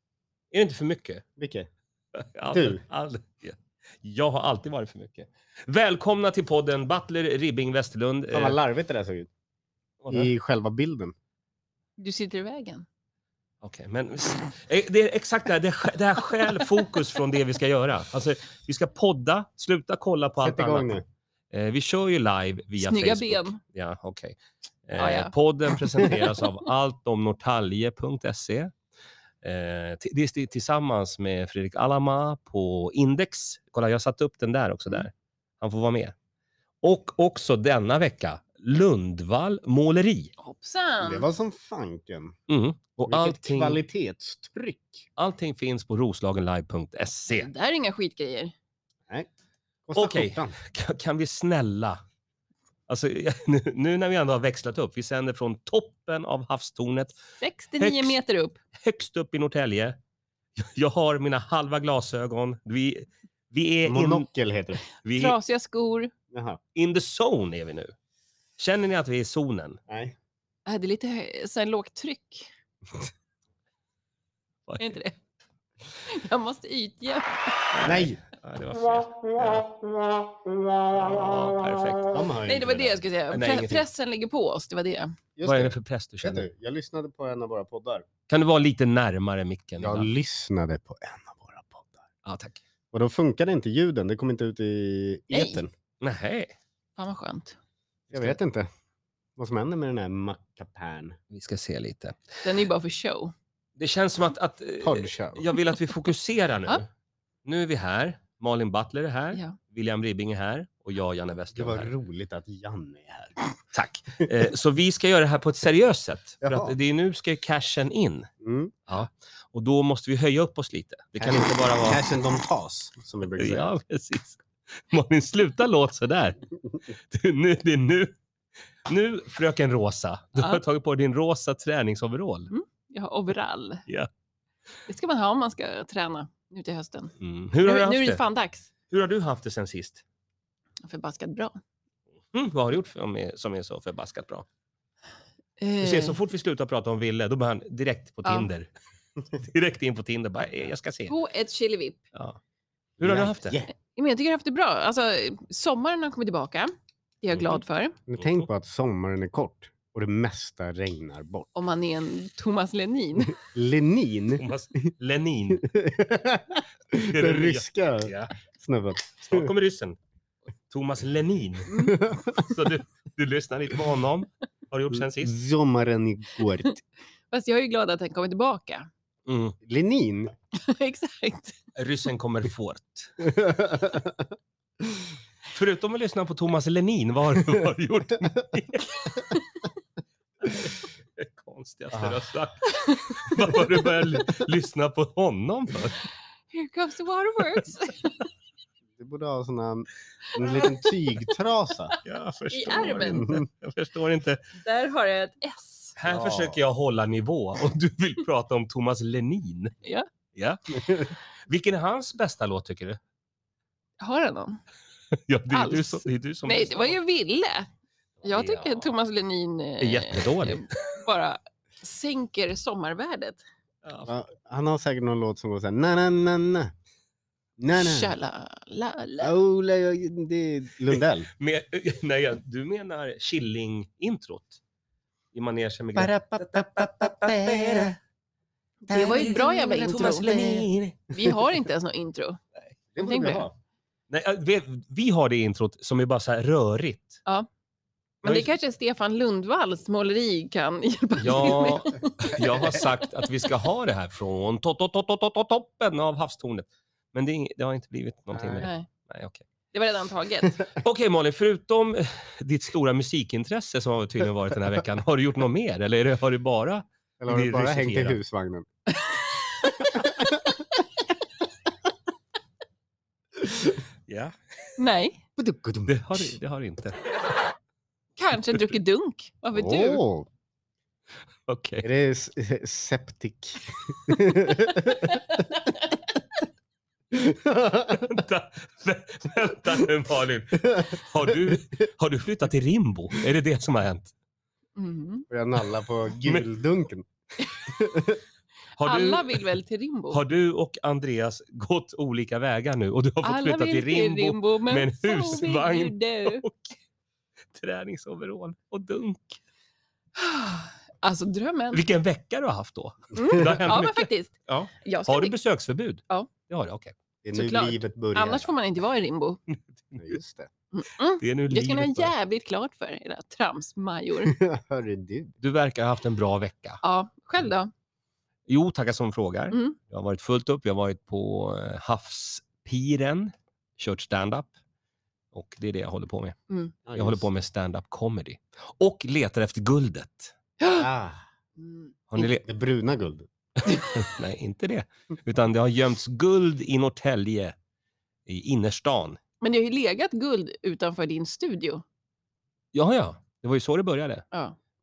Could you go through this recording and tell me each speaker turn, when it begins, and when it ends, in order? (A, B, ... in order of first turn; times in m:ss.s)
0:00.5-0:01.2 A
0:01.4-0:01.7 B
0:02.1-0:08.6 A
0:02.5-0:02.8 B
0:08.3-0:09.3 B
0:10.0-0:10.3 A
0:10.1-0:11.1 B
0:12.0-0:12.8 C
0:13.6-0:21.0 A
0:20.4-0:21.0 B
0:21.5-0:28.7 A
0:22.8-0:23.6 C
0:25.0-0:25.8 C
0:29.4-0:36.1 A
0:36.8-0:40.3 A
0:40.4-0:41.2 C
0:41.0-0:42.3 B
0:42.5-0:43.8 A
0:43.0-0:45.0 B
0:45.2-0:47.5 A
0:47.3-0:48.5 C
0:49.9-0:50.6 B
0:49.9-0:52.0 A
0:52.9-0:57.2 A
0:57.4-0:58.6 C
0:57.8-0:58.2 A
0:58.8-1:00.0 A
1:00.6-1:04.3 A
1:03.8-1:04.8 B
1:04.8-1:05.4 A
1:05.1-1:06.1 C
1:06.3-1:06.6 B
1:06.7-1:07.9 A
1:08.6-1:09.8 A
1:09.9-1:10.2 B
1:10.6-1:12.5 C
1:14.7-1:15.0 A
1:14.8-1:15.1 C
1:16.0-1:17.7 C
1:17.7-1:19.8 A
1:17.8-1:18.2 B
1:20.9-1:22.3 A
1:22.1-1:23.0 B
1:22.4-1:25.2 C
1:23.3-1:23.8 A
1:25.4-1:28.0 B
1:25.4-1:26.5 A
1:28.3-1:30.1 A
1:29.8-1:32.0 B
1:32.2-1:32.6 A
1:32.9-1:35.7 B
1:35.3-1:35.6 C
1:36.0-1:36.5 A
1:37.0-1:37.6 C
1:38.1-1:38.4 A
1:38.1-1:38.7 B
1:39.4-1:41.2 B
1:41.3-1:42.4 A
1:42.4-1:43.3 C
1:43.8-1:46.9 A
1:44.8-1:45.5 B
1:47.4-1:51.9 A
1:51.5-1:53.4 B
1:53.7-1:58.3 A
1:56.4-1:56.7 B
1:58.4-1:58.7 B
1:58.9-2:02.0 A
2:01.2-2:03.7 B
2:03.4-2:06.4 A
2:07.1-2:08.1 A
2:08.8-2:12.5 A
2:12.5-2:13.8 C
2:14.9-2:18.7 C
2:17.2-2:18.2 A
2:18.9-2:20.0 A
2:20.8-2:21.5 C
2:22.3-2:24.4 A
2:25.6-2:26.2 C
2:25.8-2:28.7 A
2:28.2-2:28.5 C
2:29.3-2:31.1 A
2:31.1-2:32.0 C
2:33.0-2:33.6 A
2:33.0-2:33.7 B
2:34.0-2:38.0 C
2:37.3-2:37.6 A
2:38.1-2:41.5 B
2:38.1-2:38.4 A
2:41.6-2:43.4 C
2:43.4-2:44.5 B
2:44.4-2:45.6 A
2:45.6-2:49.5 B
2:47.1-2:48.3 A
2:49.2-2:50.0 A
2:50.7-2:51.8 A
2:51.7-2:52.0 C
2:51.7-2:52.5 B
2:52.3-2:55.3 A
2:55.1-2:56.8 B
2:57.3-2:58.9 C
2:59.2-2:59.6 A
2:59.6-3:00.3 B
3:00.5-3:01.6 C
3:01.7-3:03.1 A
3:03.2-3:04.3 B
3:05.5-3:09.3 A
3:10.4-3:16.0 A
3:12.7-3:13.3 C
3:16.5-3:18.2 C
3:19.0-3:22.0 B
3:20.4-3:20.8 C
3:22.0-3:24.4 A
3:22.5-3:23.4 C
3:23.2-3:23.4 B
3:24.6-3:26.0 C
3:26.0-3:29.8 A
3:26.0-3:26.6 B
3:30.3-3:33.0 A
3:34.0-3:34.6 C
3:35.1-3:37.0 A
3:35.5-3:37.7 C
3:38.2-3:38.9 A
3:38.2-3:43.4 C
3:39.8-3:40.9 A
3:43.8-3:44.1 A
3:44.0-3:46.7 B
3:47.6-3:48.1 B
3:47.8-3:49.3 C
3:49.2-3:51.3 B
3:50.9-3:54.6 A
3:55.3-3:57.9 A
3:55.9-3:58.0 B
3:58.9-4:00.3 C
3:58.9-4:00.7 B
3:59.0-4:01.1 A
4:01.1-4:02.4 C
4:02.9-4:03.5 B
4:03.0-4:03.4 C
4:04.1-4:07.2 A
4:08.2-4:12.9 C
4:08.2-4:08.5 A
4:11.2-4:19.4 A
4:18.3-4:18.7 B
4:18.6-4:18.9 C
4:19.7-4:20.7 C
4:20.7-4:28.2 A
4:27.2-4:28.7 B
4:29.8-4:30.6 B
4:34.1-4:34.8 A
4:34.8-4:35.2 C
4:35.4-4:36.3 B
4:35.9-4:37.0 A
4:38.2-4:40.0 C
4:39.5-4:40.3 B
4:41.5-4:41.8 A
4:41.8-4:45.4 B
4:47.1-4:48.2 B
4:47.9-4:54.1 A
4:50.6-4:51.6 B
4:54.8-4:55.2 C
4:55.3-4:58.2 B
4:58.8-4:59.5 A
4:58.8-5:00.2 C
5:00.1-5:06.8 A
5:03.2-5:06.4 C
5:07.5-5:09.4 A
5:10.2-5:11.8 C
5:11.7-5:16.9 A
5:13.1-5:15.3 C
5:17.2-5:18.5 B
5:17.3-5:19.4 C
5:19.5-5:20.2 A
5:20.0-5:20.5 B
5:20.7-5:24.4 C
5:21.2-5:22.1 A
5:24.2-5:25.4 B
5:25.4-5:26.8 A
5:26.8-5:27.7 C
5:28.5-5:34.5 A
5:29.5-5:29.8 C
5:35.3-5:36.4 A
5:36.8-5:37.3 B
5:37.0-5:40.3 A
5:40.6-5:40.8 C
5:40.8-5:41.2 B
5:41.6-5:41.9 C
5:42.1-5:42.4 A
5:42.2-5:43.3 B
5:43.7-5:47.6 A
5:48.2-5:49.2 A
5:49.4-5:51.8 C
5:52.7-5:54.2 A